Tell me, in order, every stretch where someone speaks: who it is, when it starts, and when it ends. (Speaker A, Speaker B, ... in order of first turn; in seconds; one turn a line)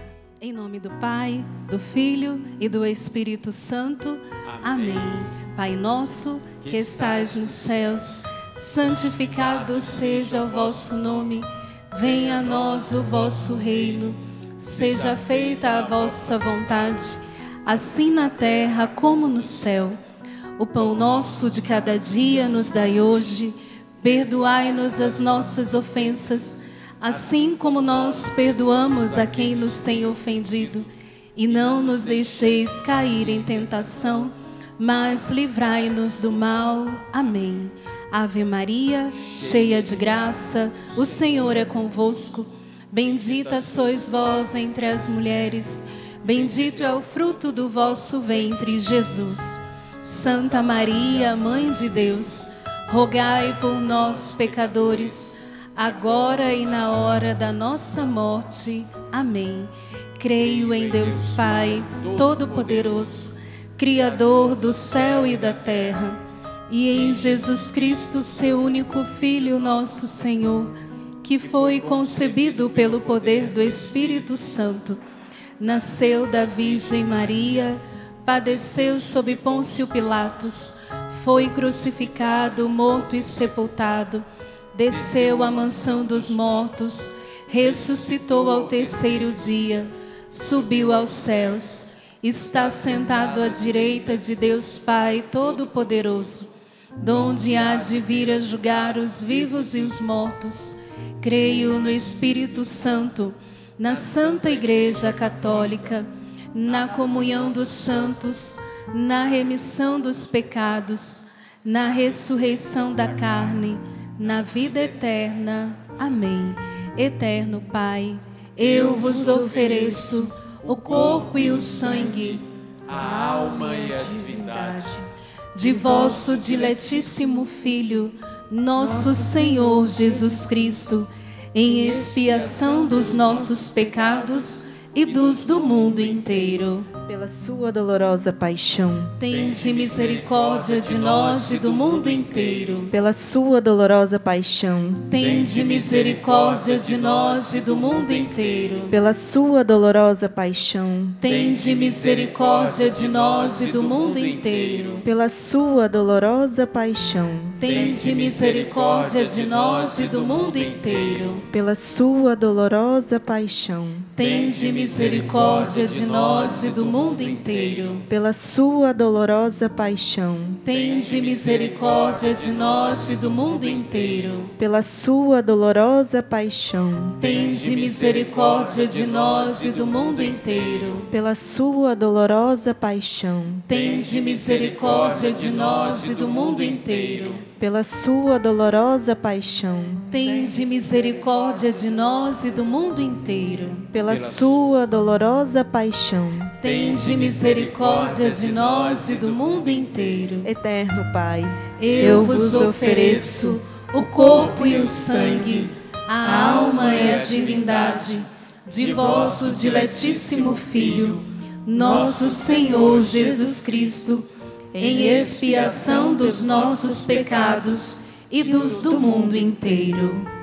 Speaker A: 0.4-20.0
Speaker B: 4.4-5.2
Speaker B: 6.6-8.3
Speaker B: 8.9-11.3
Speaker B: 12.0-14.0
Speaker B: 14.8-16.7
Speaker A: 20.6-75.0
Speaker B: 27.1-30.8
Speaker B: 31.5-34.0
Speaker B: 39.2-41.7
Speaker B: 43.0-44.5
Speaker B: 46.3-48.7
Speaker B: 53.5-55.3
Speaker B: 55.9-57.1
Speaker B: 60.4-63.2
Speaker B: 64.0-65.5
Speaker B: 69.5-70.2
Speaker B: 71.5-74.5
Speaker A: 75.6-96.5
Speaker B: 78.6-79.9
Speaker B: 84.9-86.7
Speaker B: 87.6-89.3
Speaker B: 90.6-91.5
Speaker B: 92.4-94.2
Speaker A: 97.0-122.4
Speaker B: 97.1-100.0
Speaker B: 103.9-105.9
Speaker B: 106.7-108.1
Speaker B: 114.4-114.9
Speaker B: 118.6-120.1
Speaker B: 120.6-125.0
Speaker C: 123.5-125.0
Speaker A: 125.5-136.9
Speaker B: 125.7-126.8
Speaker C: 129.1-130.5
Speaker B: 131.9-136.3
Speaker C: 137.0-139.2
Speaker A: 139.2-142.9
Speaker B: 139.3-142.9
Speaker C: 142.9-145.1
Speaker A: 145.1-148.9
Speaker B: 145.2-148.9
Speaker C: 148.9-151.2
Speaker A: 151.2-155.0
Speaker B: 151.3-155.1
Speaker C: 155.0-157.6
Speaker A: 157.6-161.5
Speaker B: 157.7-161.5
Speaker C: 161.5-164.1
Speaker A: 164.2-168.0
Speaker B: 164.2-168.0
Speaker C: 168.1-170.6
Speaker A: 170.6-174.5
Speaker B: 170.7-174.3
Speaker C: 174.6-177.2
Speaker A: 177.2-181.1
Speaker B: 177.2-180.9
Speaker C: 181.1-183.7
Speaker A: 183.7-187.4
Speaker B: 183.7-187.4
Speaker C: 187.6-190.1
Speaker A: 190.1-193.9
Speaker C: 193.9-196.6
Speaker B: 194.1-194.6
Speaker A: 196.6-200.5
Speaker B: 196.7-200.1
Speaker C: 200.4-203.1
Speaker A: 201.8-220.3
Speaker B: 201.9-203.4
Speaker B: 204.1-205.7
Speaker B: 206.2-208.2
Speaker B: 208.8-211.2
Speaker B: 211.8-213.3
Speaker C: 214.7-217.7
Speaker C: 218.4-219.5